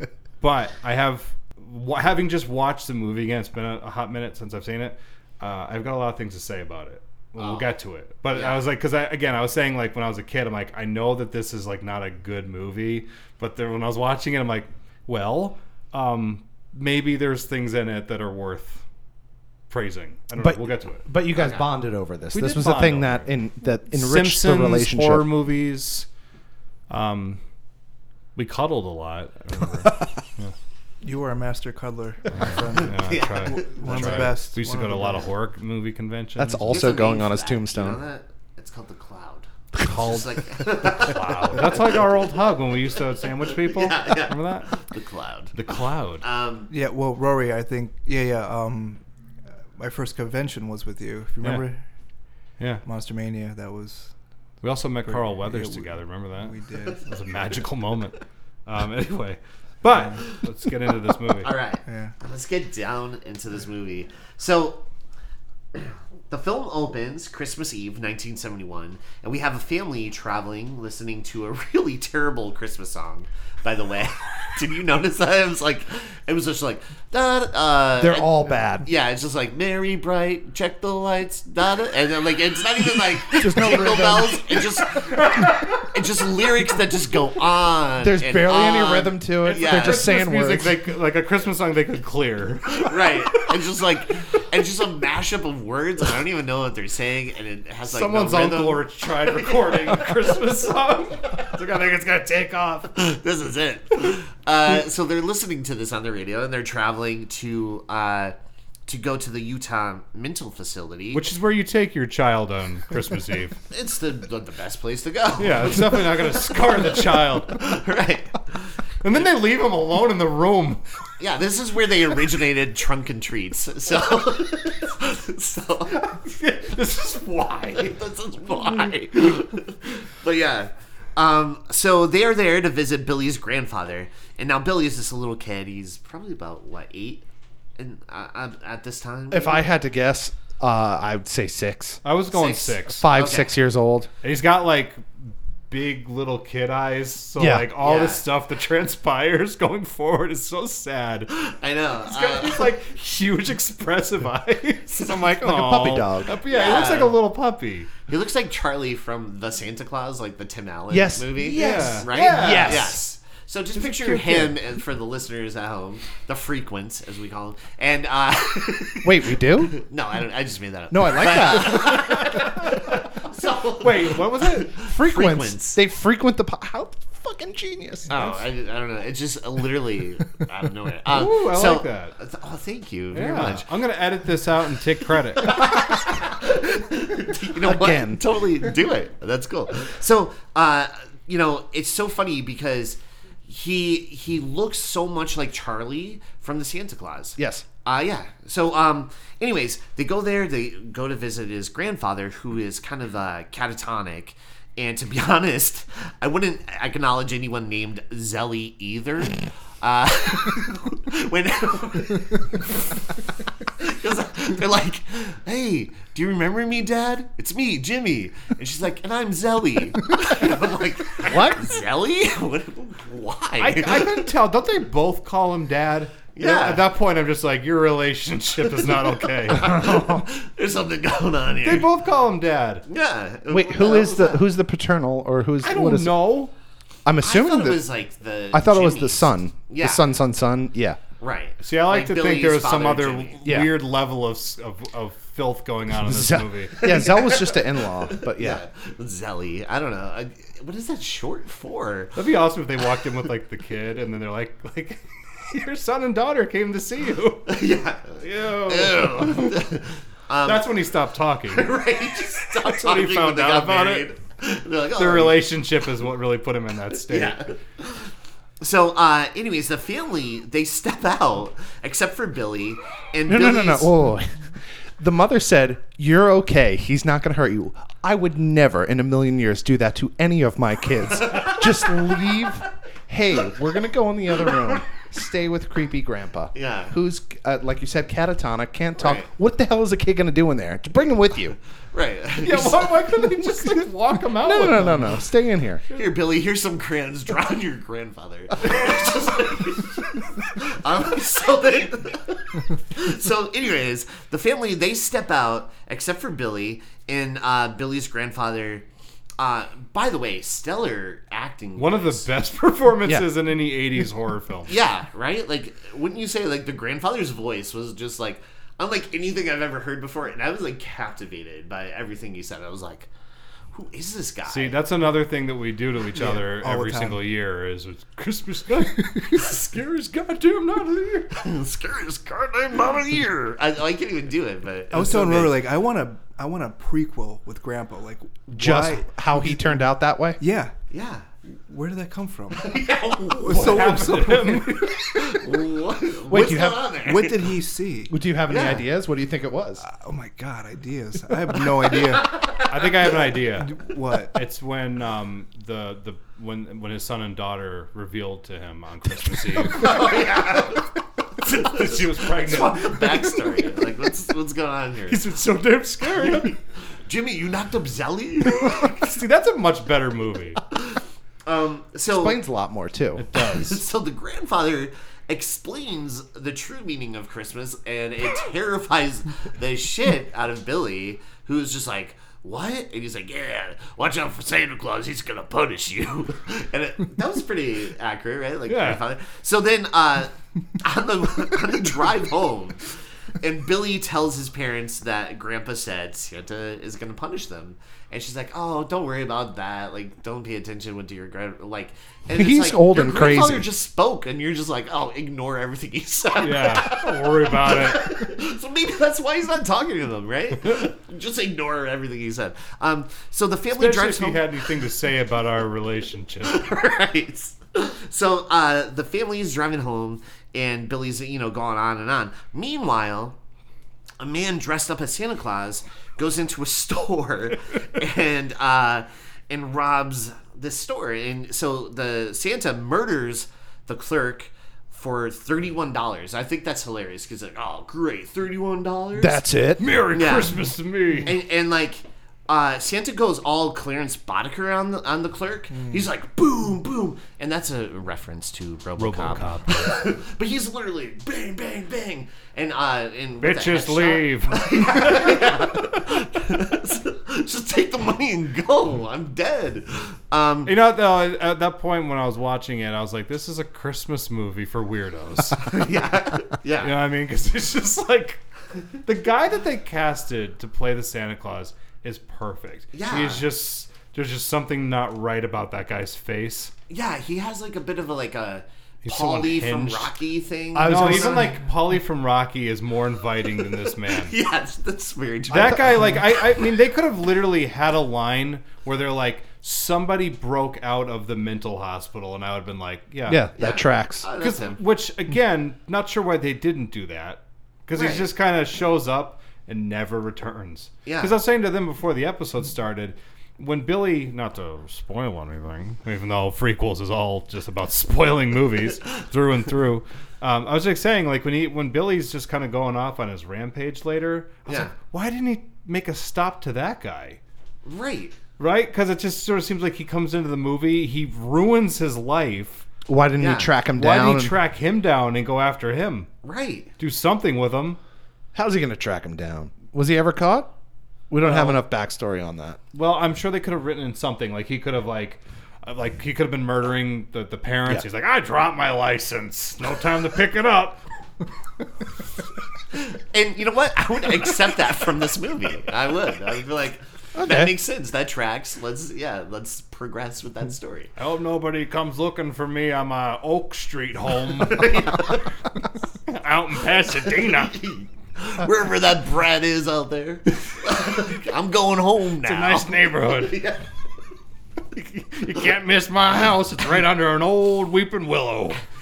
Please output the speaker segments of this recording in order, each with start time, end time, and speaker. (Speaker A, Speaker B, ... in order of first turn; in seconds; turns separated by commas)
Speaker A: 0.4-18.8, Speaker B: 7.4-7.7, Speaker B: 8.3-8.6, Speaker A: 19.7-21.1, Speaker C: 20.4-25.3, Speaker B: 21.4-21.7, Speaker A: 22.3-23.3, Speaker A: 23.9-26.1, Speaker A: 26.9-27.4, Speaker A: 28.4-30.5, Speaker D: 31.0-35.3, Speaker A: 32.3-36.7, Speaker B: 32.8-34.3, Speaker C: 36.4-38.0, Speaker B: 36.6-42.1, Speaker A: 39.8-44.8, Speaker B: 43.4-45.5, Speaker A: 45.5-46.2, Speaker B: 46.2-46.7, Speaker D: 46.7-49.0, Speaker D: 49.8-51.8, Speaker A: 51.4-51.7, Speaker D: 52.8-54.1, Speaker A: 54.6-61.5, Speaker D: 55.1-57.0, Speaker B: 61.3-64.8, Speaker D: 61.9-62.1, Speaker B: 65.7-90.1, Speaker C: 78.0-78.9, Speaker C: 83.3-84.7, Speaker A: 85.0-85.9, Speaker C: 88.0-90.8, Speaker A: 89.5-93.4, Speaker B: 92.8-100.3, Speaker A: 97.9-102.9, Speaker B: 102.9-108.3, Speaker B: 108.9-111.2, Speaker A: 111.1-113.6, Speaker B: 113.7-116.2, Speaker A: 115.4-117.8, Speaker B: 117.5-118.8, Speaker A: 119.0-120.8, Speaker B: 121.2-126.1, Speaker A: 126.0-128.0, Speaker B: 127.8-137.2, Speaker B: 137.8-139.7, Speaker C: 139.3-142.0, Speaker A: 142.0-143.1, Speaker B: 142.3-143.5, Speaker C: 143.0-144.1, Speaker A: 144.2-151.6, Speaker C: 147.4-147.7, Speaker B: 147.8-148.2, Speaker B: 151.6-152.7, Speaker A: 152.1-157.9, Speaker C: 154.9-156.3, Speaker B: 156.5-157.2, Speaker B: 158.1-175.8, Speaker C: 160.9-163.0, Speaker A: 161.4-163.0, Speaker C: 169.0-169.8, Speaker C: 170.9-172.2, Speaker A: 171.8-173.0, Speaker A: 173.8-174.8, Speaker C: 174.8-178.4, Speaker B: 178.1-183.7, Speaker A: 181.1-182.2, Speaker A: 183.1-185.8, Speaker B: 185.4-213.1, Speaker C: 187.6-188.2, Speaker C: 197.4-197.7, Speaker B: 213.6-224.3, Speaker C: 221.2-221.8, Speaker A: 223.6-229.9, Speaker B: 226.3-226.9, Speaker B: 228.7-231.9, Speaker C: 229.9-230.2, Speaker A: 231.6-232.8, Speaker B: 232.9-234.4, Speaker C: 233.5-236.2, Speaker A: 235.6-236.5, Speaker C: 237.1-237.8, Speaker B: 237.2-240.1, Speaker C: 238.5-241.0, Speaker B: 241.2-243.4, Speaker A: 241.6-246.9, Speaker C: 243.4-243.7, Speaker C: 246.0-248.6, Speaker B: 246.7-252.2, Speaker A: 252.2-257.6, Speaker B: 257.5-260.7, Speaker A: 258.2-259.6, Speaker A: 260.4-264.1, Speaker B: 261.5-265.4, Speaker A: 265.0-267.5, Speaker B: 267.1-268.1, Speaker B: 268.6-273.9, Speaker C: 273.3-274.4, Speaker C: 275.0-291.6, Speaker B: 281.1-282.1, Speaker B: 286.5-286.9, Speaker B: 289.0-289.3, Speaker B: 291.9-292.9, Speaker A: 292.4-295.2, Speaker C: 293.4-293.7, Speaker C: 294.4-295.8, Speaker B: 295.9-308.9, Speaker B: 309.4-312.3, Speaker A: 311.8-314.7, Speaker B: 314.7-323.1, Speaker B: 323.7-324.8, Speaker A: 324.5-331.3, Speaker D: 326.1-327.2, Speaker B: 331.3-335.6, Speaker D: 334.9-339.9, Speaker C: 338.5-340.4, Speaker D: 340.4-340.7, Speaker B: 340.9-341.3, Speaker D: 341.5-342.8, Speaker B: 342.6-343.8, Speaker D: 343.4-345.2, Speaker A: 343.5-344.9, Speaker B: 345.0-347.6, Speaker C: 346.3-346.9, Speaker D: 347.0-348.8, Speaker C: 348.1-349.9, Speaker B: 348.5-348.9, Speaker D: 349.8-352.4, Speaker B: 352.1-353.2, Speaker A: 352.7-360.2, Speaker D: 353.6-354.4, Speaker B: 359.6-365.2, Speaker A: 361.4-363.5, Speaker A: 365.1-366.6, Speaker B: 366.2-366.5, Speaker B: 367.1-369.1, Speaker A: 368.6-370.6, Speaker B: 370.7-372.4, Speaker C: 372.1-373.2, Speaker A: 373.2-373.8, Speaker B: 373.4-414.5, Speaker A: 388.7-389.0, Speaker C: 402.3-403.7, Speaker A: 406.4-408.3, Speaker A: 413.7-416.7, Speaker B: 416.4-423.4, Speaker B: 424.2-439.4, Speaker C: 439.2-439.9, Speaker A: 439.8-441.4, Speaker B: 440.1-440.6, Speaker B: 441.2-460.7, Speaker D: 445.8-446.0, Speaker A: 449.0-450.1, Speaker A: 453.4-455.1, Speaker A: 460.7-465.7, Speaker B: 465.6-466.9, Speaker A: 466.8-468.4, Speaker A: 469.0-476.7, Speaker B: 472.9-473.4, Speaker B: 476.9-481.5, Speaker A: 479.0-480.1, Speaker C: 480.8-481.6, Speaker A: 480.8-484.4, Speaker B: 483.6-486.3, Speaker A: 485.5-493.4, Speaker C: 485.5-486.1, Speaker C: 493.3-494.3, Speaker B: 493.6-494.8, Speaker A: 494.4-517.4, Speaker B: 497.9-498.3, Speaker B: 501.1-501.4, Speaker B: 514.7-514.9, Speaker B: 517.9-518.4, Speaker A: 518.6-522.9, Speaker C: 523.1-524.6, Speaker B: 523.4-523.7, Speaker A: 524.0-526.3, Speaker B: 526.4-526.9, Speaker A: 527.0-528.0, Speaker C: 528.5-530.7, Speaker C: 531.3-532.8, Speaker A: 531.4-531.8, Speaker A: 532.9-541.0, Speaker B: 542.9-551.1, Speaker C: 547.4-547.7, Speaker A: 551.2-555.4, Speaker B: 554.7-555.4, Speaker A: 556.3-557.9, Speaker B: 557.3-563.8, Speaker A: 562.4-563.6, Speaker A: 564.9-568.8